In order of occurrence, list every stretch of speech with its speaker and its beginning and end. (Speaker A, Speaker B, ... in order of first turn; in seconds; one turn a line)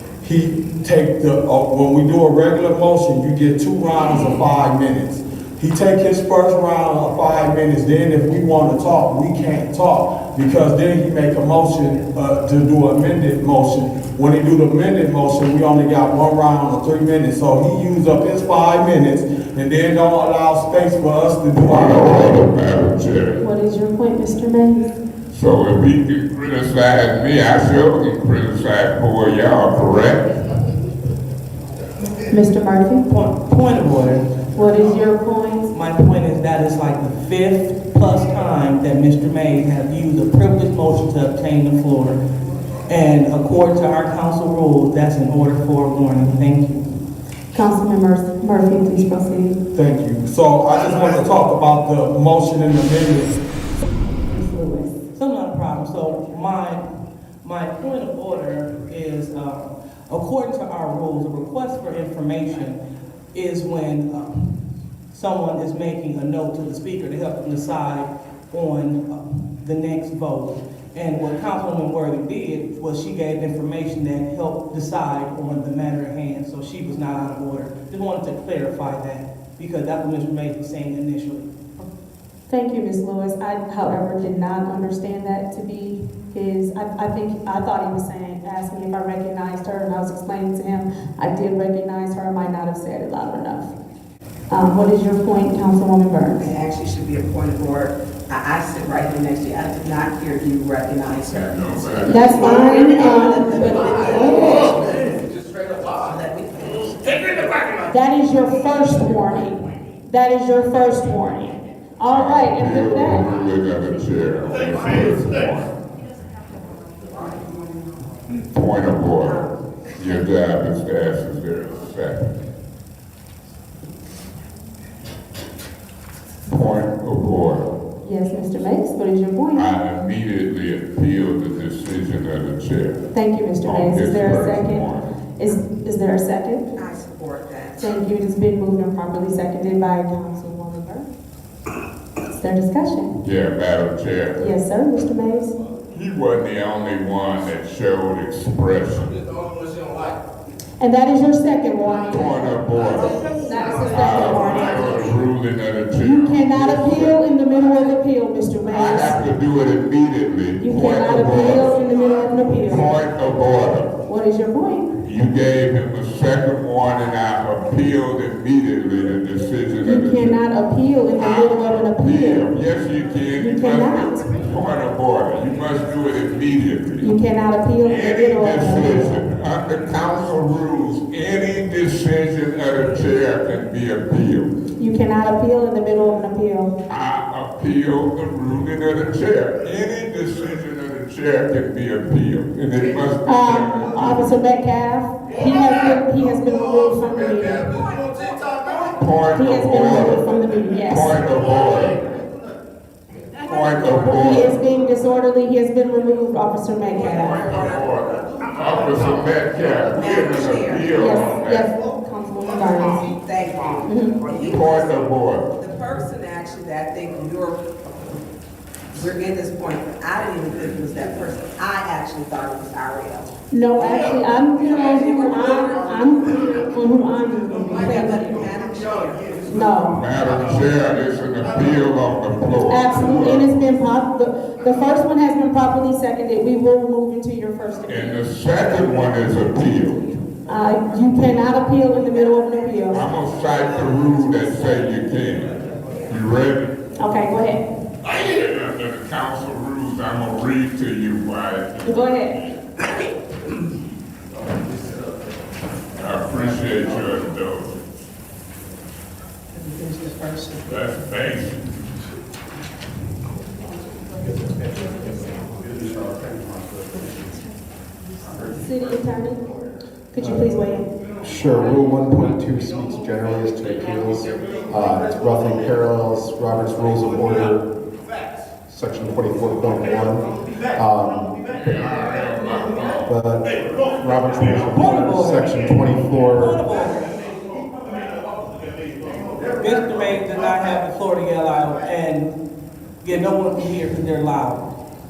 Speaker A: 0.2-22.4
Speaker B: 21.5-23.4
Speaker C: 23.4-24.9
Speaker B: 25.3-30.3
Speaker C: 32.3-33.0
Speaker D: 33.1-34.2
Speaker C: 34.6-35.7
Speaker D: 35.7-42.2
Speaker D: 42.9-46.9
Speaker C: 47.5-49.6
Speaker A: 49.7-53.4
Speaker C: 54.3-55.0
Speaker D: 55.1-56.8
Speaker D: 57.4-62.8
Speaker D: 63.3-64.5
Speaker D: 65.1-81.8
Speaker C: 82.5-93.7
Speaker C: 94.5-96.5
Speaker E: 96.4-105.2
Speaker B: 101.3-102.2
Speaker C: 102.1-104.5
Speaker E: 106.0-107.5
Speaker C: 107.9-113.3
Speaker B: 112.1-115.7
Speaker E: 117.1-117.6
Speaker B: 118.5-119.4
Speaker E: 119.2-119.6
Speaker B: 120.0-122.3
Speaker B: 126.5-127.7
Speaker C: 128.0-129.7
Speaker B: 129.5-133.0
Speaker C: 133.1-136.7
Speaker B: 133.6-135.2
Speaker E: 136.7-137.9
Speaker C: 137.8-141.1
Speaker C: 142.3-143.2
Speaker B: 143.2-144.5
Speaker C: 144.3-145.6
Speaker B: 145.9-149.2
Speaker C: 150.8-152.6
Speaker B: 152.0-153.1
Speaker C: 153.4-155.0
Speaker B: 153.9-157.2
Speaker C: 155.9-159.3
Speaker B: 158.7-161.8
Speaker C: 160.6-162.9
Speaker B: 162.7-164.0
Speaker C: 164.1-164.9
Speaker B: 165.0-170.4
Speaker C: 169.8-172.5
Speaker B: 171.2-177.1
Speaker C: 173.3-174.3
Speaker C: 177.0-179.2
Speaker B: 177.8-184.5
Speaker C: 184.8-186.7
Speaker B: 186.9-194.3
Speaker C: 193.3-197.7
Speaker B: 198.9-200.3
Speaker C: 199.3-201.2
Speaker B: 200.9-202.0
Speaker B: 203.4-204.5
Speaker C: 204.0-207.3
Speaker E: 207.0-207.7
Speaker B: 207.2-211.7
Speaker E: 209.9-211.2
Speaker C: 210.9-213.1
Speaker E: 213.1-217.6
Speaker C: 213.8-214.2
Speaker B: 214.5-215.5
Speaker E: 218.9-223.3
Speaker C: 223.5-228.2
Speaker E: 224.6-226.7
Speaker E: 227.8-229.5
Speaker C: 229.4-230.0
Speaker B: 230.0-233.6
Speaker C: 232.6-238.1
Speaker B: 237.8-240.1
Speaker C: 240.5-242.9
Speaker E: 242.2-243.1
Speaker B: 242.9-245.6
Speaker B: 246.1-246.7
Speaker C: 246.9-247.7
Speaker B: 248.1-252.1
Speaker C: 251.8-252.4
Speaker B: 256.0-257.9
Speaker D: 259.5-260.7
Speaker B: 260.6-261.7
Speaker F: 265.6-267.2
Speaker C: 268.6-269.5
Speaker C: 270.1-270.9
Speaker F: 271.2-277.7
Speaker F: 278.7-281.4
Speaker B: 281.6-283.1
Speaker F: 283.1-286.6
Speaker D: 284.7-287.1
Speaker D: 289.6-292.3
Speaker D: 293.0-294.7